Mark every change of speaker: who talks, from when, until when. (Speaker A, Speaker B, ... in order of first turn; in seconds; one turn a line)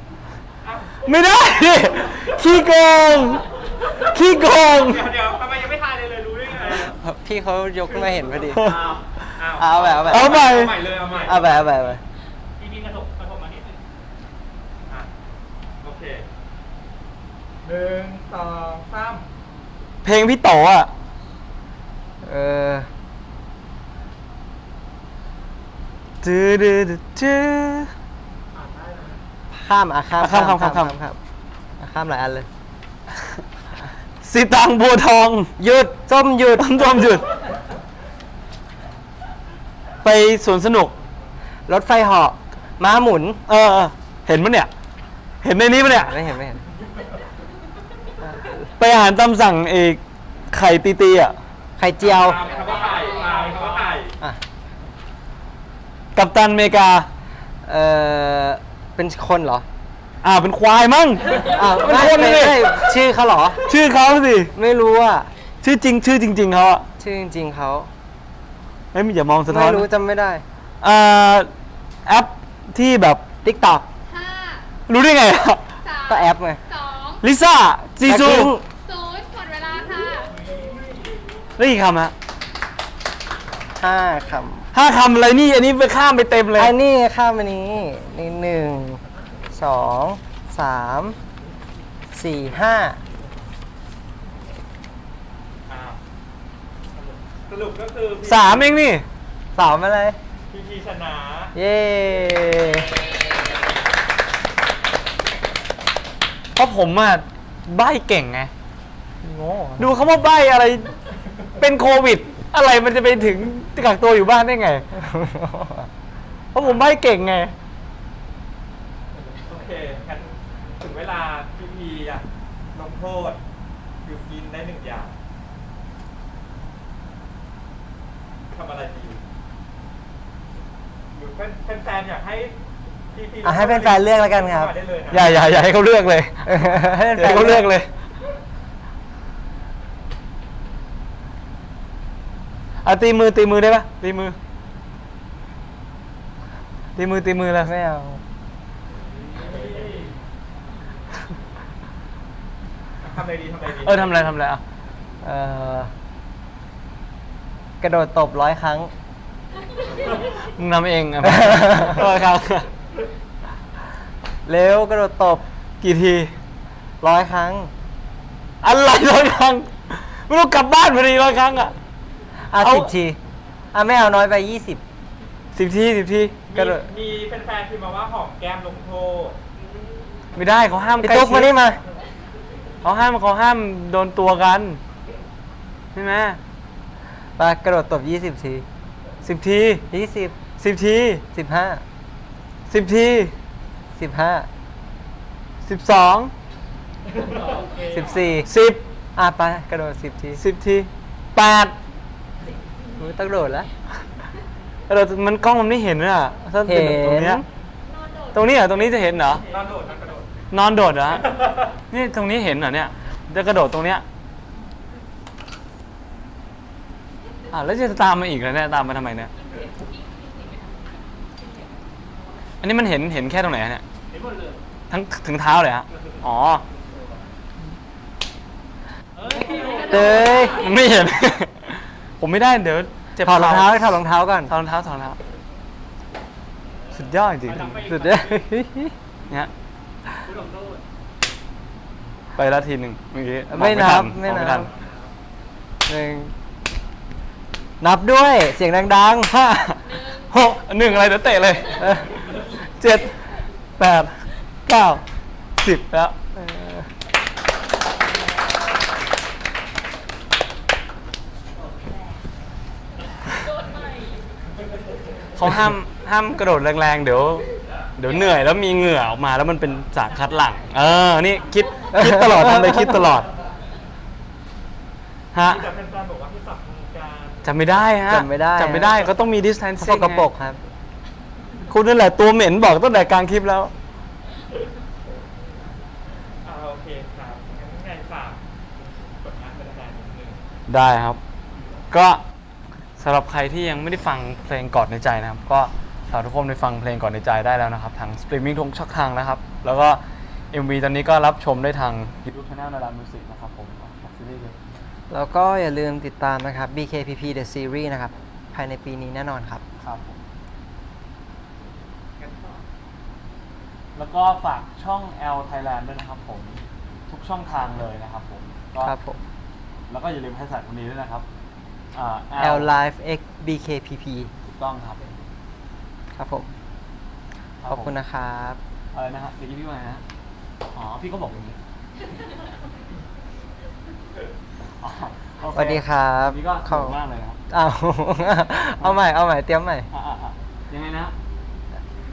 Speaker A: 0.6-2.4
Speaker B: 1.0-5.1
Speaker A: 3.8-7.0
Speaker C: 6.7-8.8
Speaker A: 7.9-8.8
Speaker B: 8.5-9.3
Speaker A: 9.3-11.6
Speaker C: 9.6-10.5
Speaker B: 10.0-10.8
Speaker D: 10.8-11.4
Speaker C: 11.2-12.0
Speaker D: 12.6-13.8
Speaker A: 15.8-16.3
Speaker A: 17.6-19.3
Speaker B: 20.0-20.9
Speaker C: 22.2-22.9
Speaker B: 26.2-27.9
Speaker D: 28.5-29.2
Speaker C: 29.5-31.2
Speaker B: 30.2-30.9
Speaker C: 31.8-32.5
Speaker B: 33.1-33.4
Speaker B: 34.2-35.5
Speaker C: 35.6-37.2
Speaker B: 36.6-37.2
Speaker B: 40.0-40.9
Speaker C: 41.7-43.4
Speaker B: 43.5-44.7
Speaker B: 45.4-46.2
Speaker C: 45.9-46.6
Speaker B: 48.8-51.4
Speaker C: 51.8-52.4
Speaker A: 52.0-54.1
Speaker D: 52.4-54.0
Speaker B: 56.1-57.1
Speaker C: 57.6-59.6
Speaker B: 60.2-63.0
Speaker C: 61.4-63.6
Speaker B: 63.6-64.5
Speaker C: 64.5-65.3
Speaker B: 65.6-66.8
Speaker C: 67.0-67.9
Speaker B: 68.9-69.9
Speaker C: 69.5-70.4
Speaker B: 70.8-71.5
Speaker B: 72.0-73.3
Speaker C: 73.4-73.9
Speaker E: 74.1-74.7
Speaker B: 74.9-75.6
Speaker E: 75.8-77.2
Speaker C: 76.1-76.6
Speaker B: 77.2-78.5
Speaker C: 78.0-78.6
Speaker E: 78.8-80.5
Speaker D: 80.5-80.9
Speaker B: 81.6-82.1
Speaker C: 83.8-84.7
Speaker B: 84.7-86.7
Speaker C: 86.5-91.2
Speaker C: 92.1-93.0
Speaker A: 95.7-96.0
Speaker A: 97.5-98.8
Speaker B: 98.2-99.0
Speaker C: 99.5-100.2
Speaker A: 100.5-101.5
Speaker C: 101.5-103.0
Speaker B: 106.5-108.5
Speaker C: 109.2-109.9
Speaker B: 109.8-110.9
Speaker B: 111.6-114.8
Speaker C: 114.9-115.9
Speaker B: 116.5-117.5
Speaker A: 119.4-123.4
Speaker A: 124.0-125.1
Speaker A: 128.5-129.2
Speaker A: 131.1-132.6
Speaker A: 133.1-135.3
Speaker C: 133.4-134.7
Speaker B: 135.1-137.9
Speaker C: 136.4-137.7
Speaker B: 142.8-144.4
Speaker B: 146.9-147.7
Speaker C: 147.6-148.2
Speaker D: 149.2-150.2
Speaker A: 149.4-150.1
Speaker A: 153.0-154.1
Speaker B: 153.8-154.6
Speaker C: 155.2-155.9
Speaker C: 157.8-158.9
Speaker B: 160.4-162.7
Speaker C: 161.2-162.0
Speaker C: 164.4-165.4
Speaker B: 165.8-166.3
Speaker C: 167.0-167.7
Speaker B: 168.6-171.7
Speaker C: 172.5-173.2
Speaker B: 172.6-172.9
Speaker C: 173.7-174.8
Speaker B: 175.5-176.4
Speaker A: 176.5-179.4
Speaker C: 176.5-176.9
Speaker B: 180.3-181.5
Speaker C: 181.0-181.8
Speaker B: 182.8-184.8
Speaker B: 185.9-186.4
Speaker C: 187.4-188.7
Speaker B: 189.2-189.8
Speaker C: 189.9-190.4
Speaker B: 190.6-191.2
Speaker C: 191.3-191.8
Speaker B: 192.7-193.3
Speaker C: 193.9-194.5
Speaker B: 195.6-196.3
Speaker D: 197.1-198.4
Speaker C: 197.9-198.5
Speaker B: 198.4-198.8
Speaker C: 199.2-200.4
Speaker B: 200.3-201.7
Speaker C: 203.0-203.7
Speaker B: 204.9-207.4
Speaker C: 206.6-207.5
Speaker E: 207.8-208.8
Speaker B: 208.3-209.4
Speaker A: 209.5-210.3
Speaker B: 210.5-211.4
Speaker B: 211.9-214.0
Speaker B: 217.5-219.3
Speaker E: 219.3-221.9
Speaker B: 222.6-223.8
Speaker D: 224.1-224.6
Speaker B: 224.9-226.6
Speaker D: 225.9-227.2
Speaker D: 229.1-230.8
Speaker E: 229.4-230.7
Speaker C: 229.8-230.7
Speaker B: 230.2-235.2
Speaker C: 233.2-234.5
Speaker D: 236.7-238.4
Speaker B: 236.9-237.9
Speaker C: 237.9-238.9
Speaker D: 240.2-240.8
Speaker B: 242.3-244.7
Speaker C: 243.5-244.7
Speaker D: 244.7-245.1
Speaker C: 245.9-246.3
Speaker C: 247.8-249.3
Speaker B: 249.3-255.0
Speaker E: 249.8-250.3
Speaker C: 251.8-252.1
Speaker B: 255.6-256.1
Speaker C: 256.4-256.9
Speaker E: 263.3-264.2
Speaker B: 265.4-273.3
Speaker C: 271.9-273.0
Speaker B: 275.3-275.7
Speaker A: 275.4-277.5
Speaker B: 277.4-280.3
Speaker C: 278.1-279.0
Speaker C: 279.8-280.6
Speaker B: 281.7-283.7
Speaker A: 286.4-288.4
Speaker A: 289.1-290.4
Speaker B: 290.7-291.2
Speaker B: 291.9-292.2
Speaker B: 293.0-304.6
Speaker C: 305.1-309.6
Speaker B: 309.8-310.2
Speaker A: 312.2-312.6
Speaker B: 313.9-318.9
Speaker C: 318.8-319.2
Speaker B: 319.9-321.2
Speaker B: 321.9-322.7
Speaker C: 322.4-324.3
Speaker B: 324.4-325.1
Speaker C: 326.1-326.5
Speaker B: 327.6-327.9
Speaker C: 327.6-328.6
Speaker B: 328.9-330.0
Speaker B: 330.7-331.6
Speaker B: 334.8-337.4
Speaker C: 335.5-336.9
Speaker C: 337.5-339.9
Speaker B: 339.9-341.1